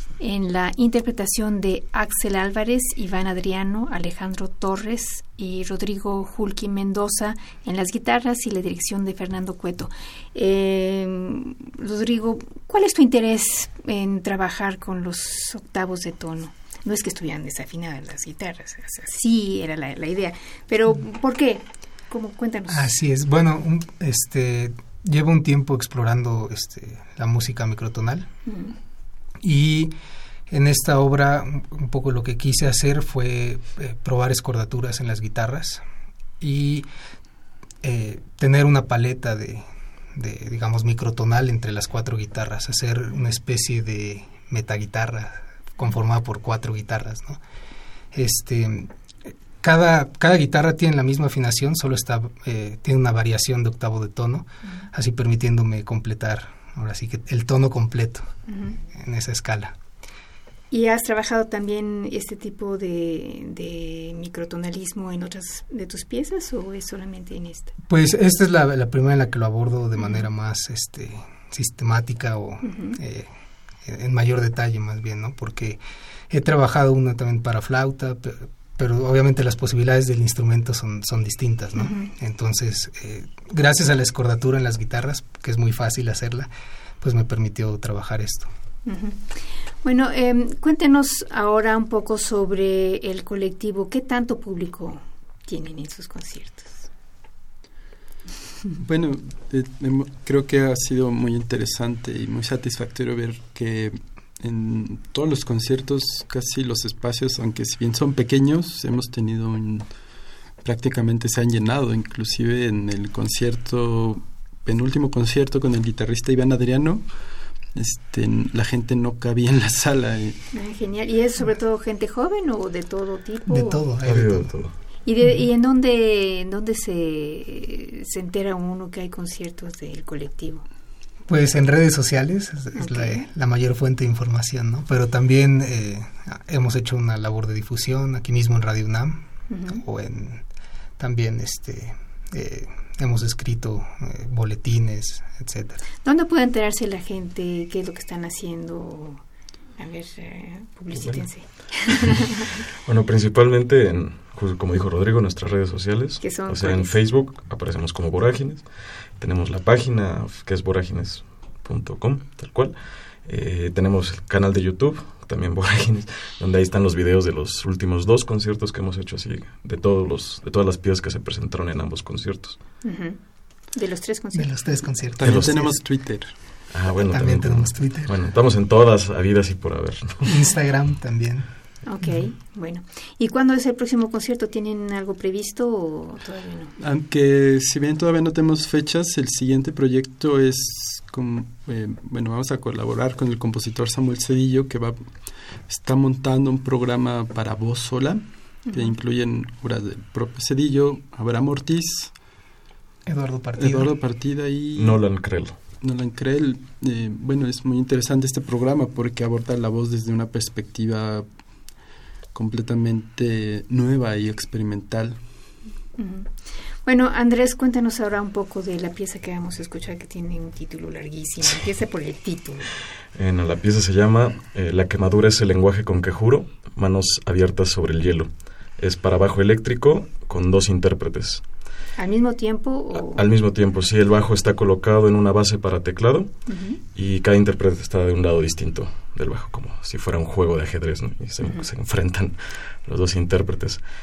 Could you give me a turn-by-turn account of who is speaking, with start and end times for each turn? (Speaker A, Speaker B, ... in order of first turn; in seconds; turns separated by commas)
Speaker A: 0.2-22.9, Speaker B: 22.7-28.3, Speaker A: 28.5-28.8, Speaker B: 29.4-29.9, Speaker B: 30.5-35.9, Speaker B: 36.4-36.9, Speaker B: 37.8-47.4, Speaker B: 48.1-58.3, Speaker A: 58.5-58.8, Speaker B: 58.9-59.8, Speaker A: 60.7-67.8, Speaker B: 67.9-86.5, Speaker A: 70.0-70.2, Speaker A: 72.6-73.0, Speaker A: 81.8-82.1, Speaker B: 87.0-88.5, Speaker A: 88.9-96.9, Speaker C: 98.8-109.9, Speaker C: 110.6-117.1, Speaker C: 117.8-120.4, Speaker A: 120.5-123.8, Speaker B: 123.5-124.6, Speaker D: 124.0-124.8, Speaker A: 125.0-130.7, Speaker B: 131.3-140.5, Speaker A: 132.8-133.3, Speaker A: 139.5-139.8, Speaker B: 141.0-145.8, Speaker A: 146.0-149.2, Speaker A: 149.8-152.6, Speaker D: 152.9-158.7, Speaker A: 156.2-157.0, Speaker D: 159.2-172.6, Speaker A: 172.8-173.2, Speaker A: 173.7-174.6, Speaker B: 174.3-175.8, Speaker C: 175.2-176.4, Speaker D: 175.2-175.6, Speaker D: 176.7-180.3, Speaker B: 177.1-178.2, Speaker B: 180.3-181.5, Speaker A: 181.8-186.8, Speaker C: 186.8-202.1, Speaker A: 198.7-198.9, Speaker B: 203.1-203.9, Speaker C: 203.6-205.0, Speaker D: 204.8-205.6, Speaker C: 205.8-211.3, Speaker C: 212.3-215.2, Speaker A: 216.0-216.3, Speaker A: 216.8-222.7, Speaker D: 223.2-231.4, Speaker A: 232.0-233.2, Speaker D: 232.9-243.8, Speaker A: 236.5-236.8, Speaker A: 241.4-241.7